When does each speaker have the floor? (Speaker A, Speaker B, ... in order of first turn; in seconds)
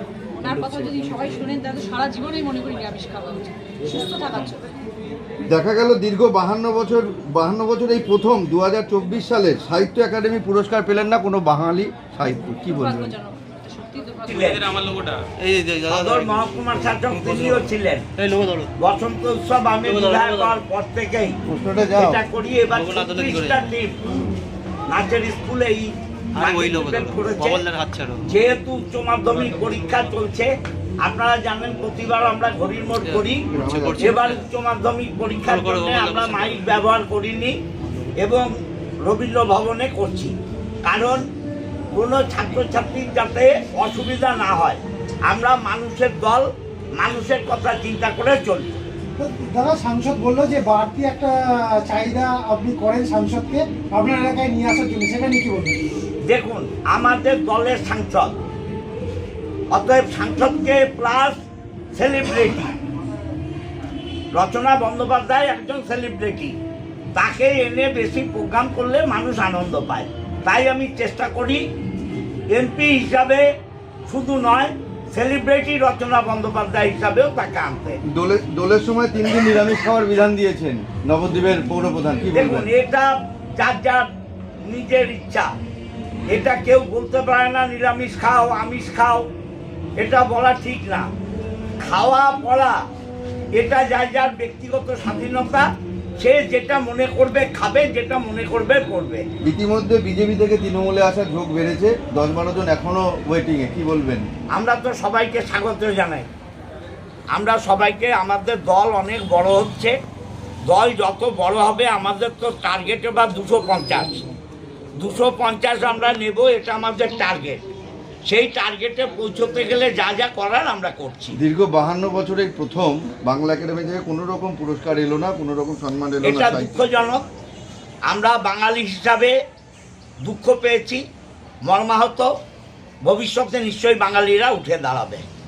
Speaker A: 0.4-4.7, 12.7-14.6
Speaker B: 0.4-1.3, 15.4-18.7, 19.8-20.6, 22.7-23.7, 26.4-28.3, 33.0-34.5, 35.5-36.8
Speaker C: 5.5-13.1, 21.5-22.2, 33.5-34.1, 78.1-82.7, 99.4-104.3, 121.4-126.8
Speaker D: 14.3-14.8, 15.9-18.1, 18.8-21.4, 21.9-24.0, 24.9-27.6, 28.3-30.5, 31.1-33.5, 34.0-37.6, 38.2-38.5, 39.1-40.3, 40.9-41.2, 42.0-46.5, 47.0-48.8, 56.3-58.4, 59.7-61.4, 62.0-62.7, 64.3-66.5, 67.2-71.6, 72.5-73.5, 74.1-78.0, 82.3-84.1, 84.7-85.5, 86.3-89.3, 90.0-91.1, 91.8-92.8, 93.6-95.7, 96.2-99.3, 104.6-106.3, 107.4-109.9, 110.7-114.2, 115.0-117.6, 118.3-121.4, 126.2-127.2, 128.1-129.3, 130.2-131.0, 131.7-132.3, 133.1-135.2
Speaker E: 49.2-55.8